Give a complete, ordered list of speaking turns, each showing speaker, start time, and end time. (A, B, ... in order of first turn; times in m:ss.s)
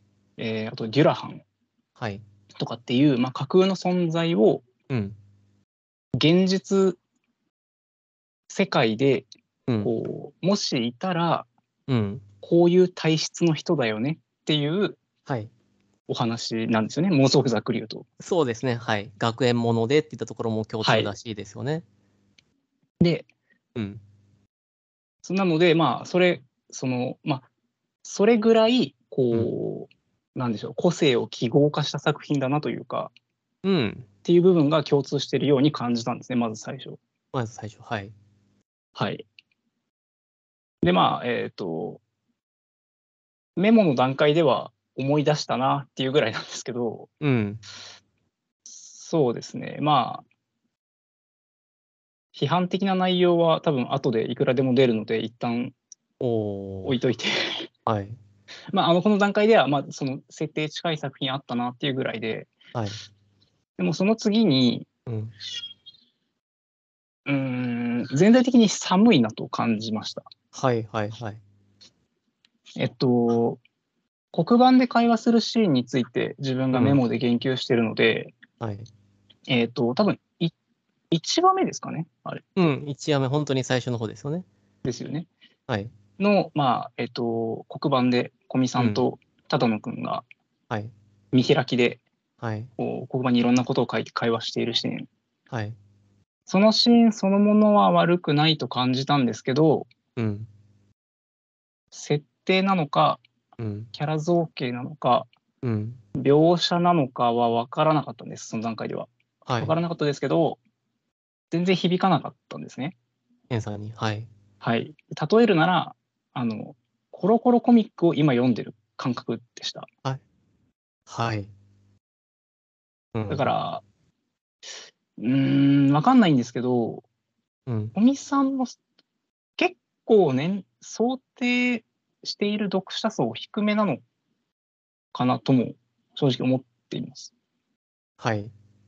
0:00.4-0:01.4 A
0:02.0-0:02.2 B
0:02.6-0:04.6 A
0:04.9-0:05.2 B
0:06.2-0:07.0 A
0:08.5-0:09.3 A
0:09.8-0:11.5 A
0:11.9-0:12.2 B
0:12.4-0:15.0 A
0:16.1-0:18.0 A
0:18.2-0:21.8 B
0:20.8-0:21.1 A
0:23.0-0:23.3 A
0:23.8-0:24.0 B
0:25.2-0:27.4 A
0:28.0-0:33.1 A
0:33.6-0:34.1 B
0:34.2-0:37.0 A
0:37.3-0:38.1 B
0:39.0-0:39.2 A
0:40.8-0:42.0 A
0:43.6-0:47.1 A
0:47.2-0:47.6 B
0:48.7-0:50.2 A
0:52.3-0:55.7 A
0:56.2-0:57.0 B
0:56.8-0:57.7 A
0:57.8-0:58.2 B
0:58.7-1:02.5 A
1:02.7-1:03.0 B
1:03.8-1:04.9 A
1:05.1-1:05.3 B
1:07.2-1:10.2 A
1:10.5-1:11.4 B
1:12.8-1:13.6 A
1:14.3-1:18.3 A
1:16.7-1:17.0 B
1:18.6-1:18.9 B
1:19.5-1:20.5 A
1:21.1-1:22.7 A
1:22.6-1:24.4 B
1:24.8-1:25.3 A
1:26.2-1:30.2 A
1:28.8-1:29.0 B
1:31.3-1:32.0 A
1:32.4-1:32.7 B
1:32.8-1:35.1 A
1:35.5-1:35.8 B
1:36.5-1:39.9 A
1:40.2-1:40.5 B
1:41.9-1:43.2 A
1:43.6-1:43.9 B
1:43.9-1:45.3 A
1:45.6-1:46.0 B
1:46.2-1:50.6 A
1:49.4-1:49.8 B
1:51.5-1:52.9 A
1:53.5-1:54.3 B
1:54.6-1:59.9 A
2:01.1-2:01.5 B
2:03.1-2:03.5 B
2:03.3-2:03.8 A
2:05.2-2:07.0 A
2:07.7-2:07.9 B
2:07.9-2:08.7 A
2:09.6-2:14.0 A
2:15.1-2:17.3 A
2:18.2-2:18.5 B